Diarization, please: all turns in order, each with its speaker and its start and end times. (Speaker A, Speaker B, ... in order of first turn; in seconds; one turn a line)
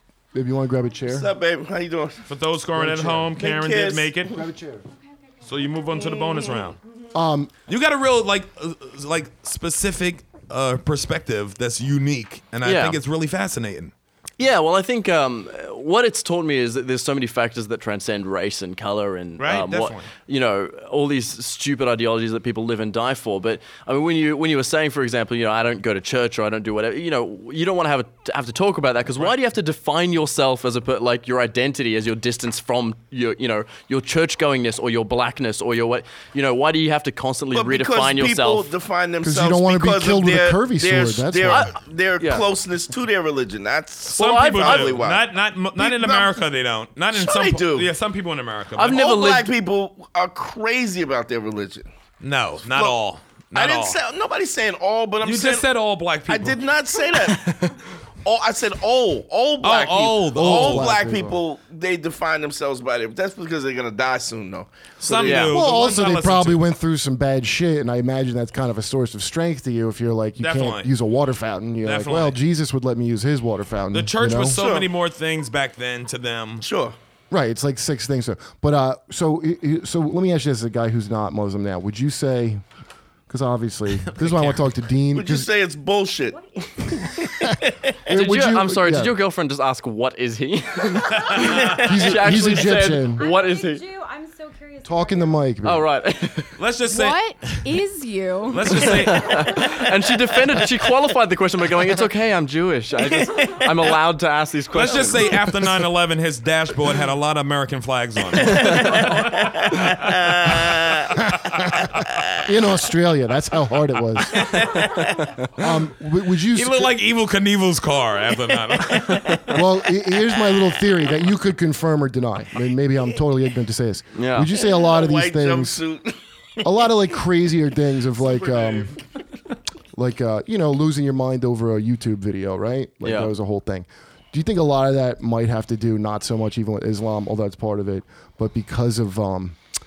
Speaker A: 0.3-1.3
Speaker B: 1.1-2.2
Speaker C: 2.2-4.4
Speaker A: 2.8-3.3
Speaker B: 3.4-4.3
Speaker A: 4.3-4.8
Speaker C: 5.4-6.8
Speaker D: 5.8-6.6
Speaker A: 7.1-7.5
Speaker C: 7.7-13.9
Speaker E: 12.6-13.0
Speaker E: 14.4-38.7
Speaker C: 19.4-20.1
Speaker B: 37.5-46.3
Speaker A: 39.2-41.7
Speaker E: 41.5-42.5
Speaker E: 44.1-45.0
Speaker C: 44.1-49.0
Speaker B: 47.1-47.9
Speaker E: 48.8-49.5
Speaker B: 48.8-51.9
Speaker C: 52.2-54.0
Speaker B: 52.6-52.9
Speaker B: 53.5-55.6
Speaker C: 55.2-56.6
Speaker B: 56.3-57.5
Speaker E: 57.4-57.7
Speaker B: 58.2-65.5
Speaker C: 59.6-60.9
Speaker A: 60.3-61.4
Speaker C: 65.0-66.6
Speaker E: 65.2-65.5
Speaker A: 65.5-74.6
Speaker C: 70.4-70.9
Speaker C: 71.8-72.4
Speaker C: 73.9-76.6
Speaker B: 74.5-74.9
Speaker B: 76.6-77.0
Speaker A: 77.3-82.6
Speaker A: 83.3-85.5
Speaker C: 84.1-84.6
Speaker B: 85.1-88.0
Speaker A: 88.1-89.1
Speaker E: 88.1-93.8
Speaker C: 91.1-91.9
Speaker A: 91.8-93.3
Speaker D: 93.1-95.3
Speaker A: 94.8-95.9
Speaker E: 95.6-96.6
Speaker C: 96.6-97.7
Speaker D: 96.8-99.8
Speaker C: 98.5-99.6
Speaker E: 98.9-105.8
Speaker C: 104.7-111.8
Speaker E: 108.4-109.1
Speaker B: 108.4-111.1
Speaker A: 112.4-114.8
Speaker E: 115.0-115.4
Speaker A: 115.6-116.9
Speaker C: 116.5-119.5
Speaker E: 118.9-119.6
Speaker A: 119.5-125.8
Speaker E: 124.1-124.5
Speaker B: 124.6-126.7
Speaker A: 126.6-128.9
Speaker C: 128.2-128.8
Speaker A: 129.9-139.6
Speaker E: 133.0-133.3